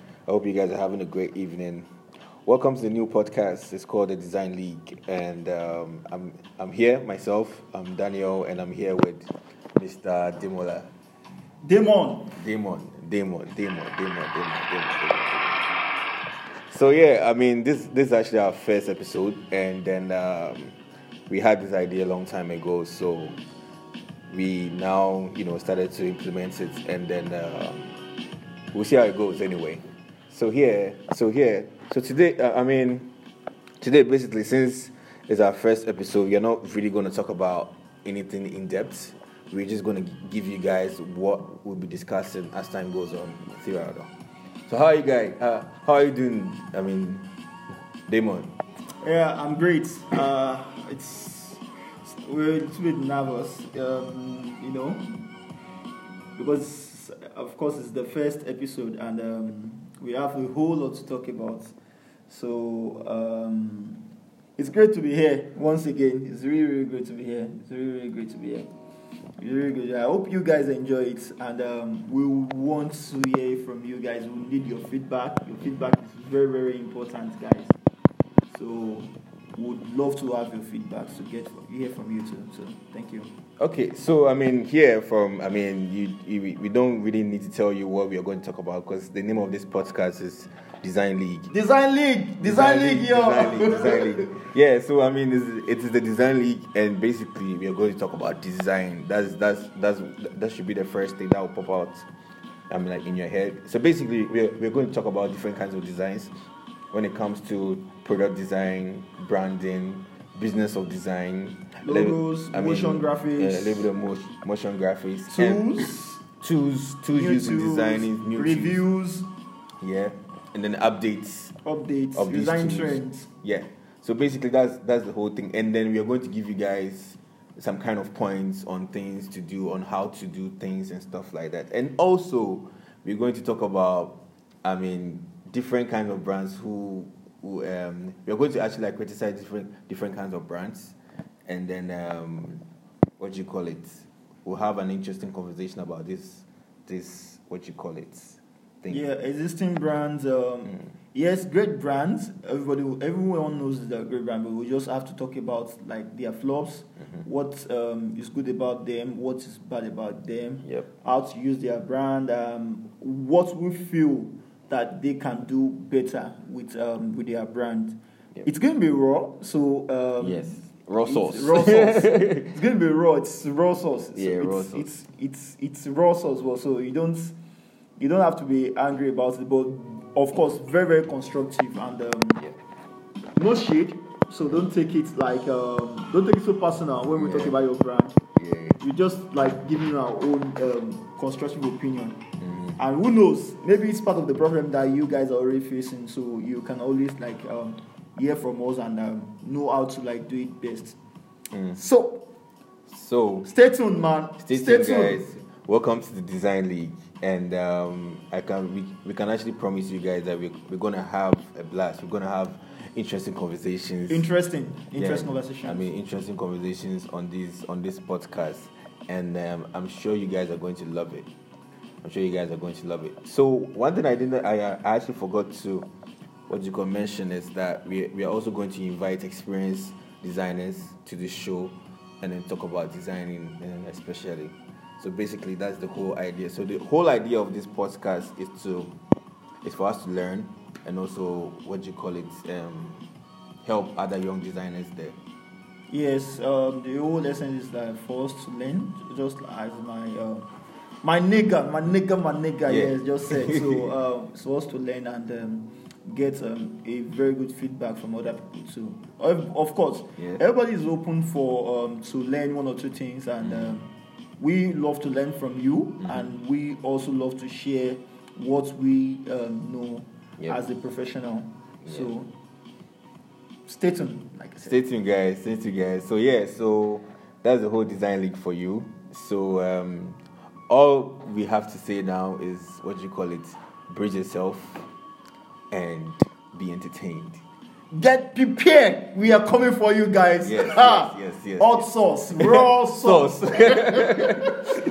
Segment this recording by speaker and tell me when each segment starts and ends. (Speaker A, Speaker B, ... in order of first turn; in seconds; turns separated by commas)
Speaker A: 0.2-1.9, Speaker A: 2.4-10.9, Speaker B: 11.6-12.3, Speaker A: 12.3-15.7, Speaker A: 16.7-20.8, Speaker A: 21.3-23.4, Speaker A: 24.3-28.0, Speaker A: 28.7-33.1, Speaker A: 33.8-44.1, Speaker A: 44.7-47.3, Speaker A: 48.1-48.5, Speaker B: 49.0-55.2, Speaker B: 56.4-61.7, Speaker B: 62.3-64.0, Speaker B: 64.6-68.7, Speaker B: 69.4-77.8, Speaker B: 78.5-83.3, Speaker A: 83.6-91.5, Speaker B: 91.5-94.3, Speaker A: 92.4-102.1, Speaker A: 102.7-106.3, Speaker A: 106.9-118.8, Speaker B: 111.8-113.9, Speaker B: 115.3-116.2, Speaker B: 117.1-119.3, Speaker A: 119.8-121.5, Speaker B: 121.6-123.3, Speaker A: 122.2-142.6, Speaker A: 143.2-149.0, Speaker B: 148.9-177.3, Speaker A: 170.2-172.5, Speaker A: 174.1-174.9, Speaker B: 178.0-182.4, Speaker B: 183.3-188.2, Speaker A: 187.2-187.5, Speaker A: 188.3-188.8, Speaker B: 188.8-192.2, Speaker B: 192.8-201.0, Speaker B: 201.7-202.3, Speaker A: 202.9-203.5, Speaker B: 203.4-205.3, Speaker A: 204.4-214.2, Speaker B: 214.1-215.9, Speaker A: 214.9-221.3, Speaker A: 222.0-225.9, Speaker A: 226.5-238.9, Speaker A: 239.6-243.1, Speaker A: 243.6-245.2, Speaker B: 245.9-250.5, Speaker B: 251.0-272.3, Speaker A: 252.7-253.8, Speaker B: 273.6-274.8, Speaker A: 274.6-284.9, Speaker A: 285.7-287.4, Speaker B: 287.9-294.6, Speaker A: 290.4-294.6